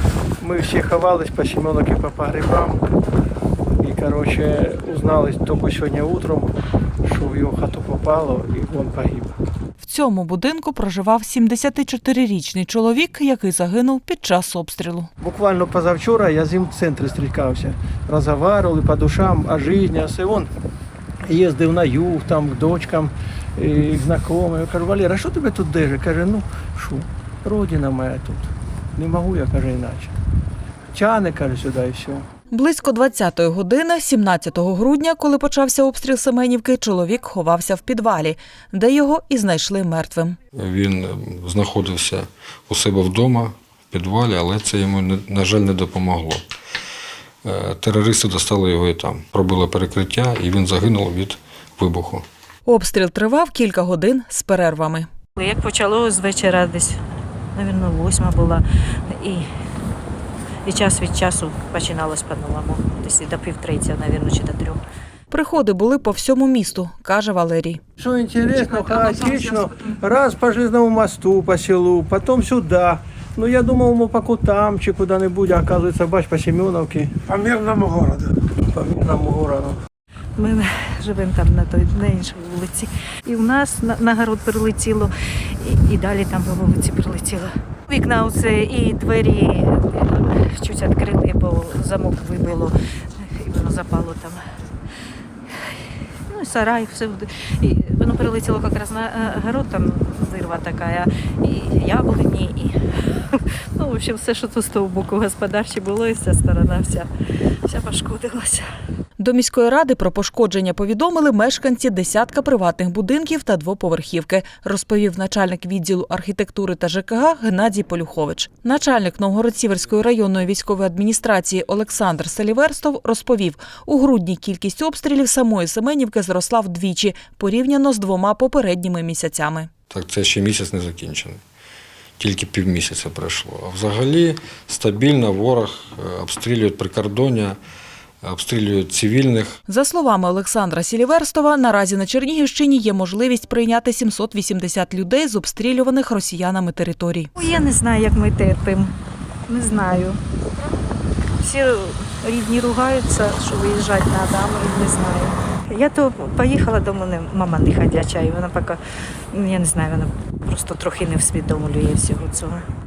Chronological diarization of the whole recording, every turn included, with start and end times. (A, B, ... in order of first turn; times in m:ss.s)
0:00.4-0:02.8 A
0:03.8-0:09.4 A
0:09.8-0:15.1 B
0:15.2-0:20.5 A
0:21.3-0:30.1 A
0:30.9-0:32.3 A
0:32.5-0:40.4 B
0:40.5-0:46.4 C
0:47.4-0:52.2 C
0:52.7-0:55.1 B
0:55.4-0:57.0 D
0:57.6-0:59.5 D
1:00.6-1:04.8 D
1:05.3-1:07.8 B
1:08.0-1:19.8 A
1:20.4-1:34.4 D
1:35.5-1:47.1 D
1:47.6-1:48.7 D
1:49.2-2:09.7 B
2:09.9-2:11.4 C
2:12.2-2:17.6 C
2:18.2-2:19.6 C
2:19.7-2:27.3 B
2:27.4-2:29.0 D
2:29.5-2:30.2 D
2:31.4-2:38.8 D
2:39.3-2:42.7 D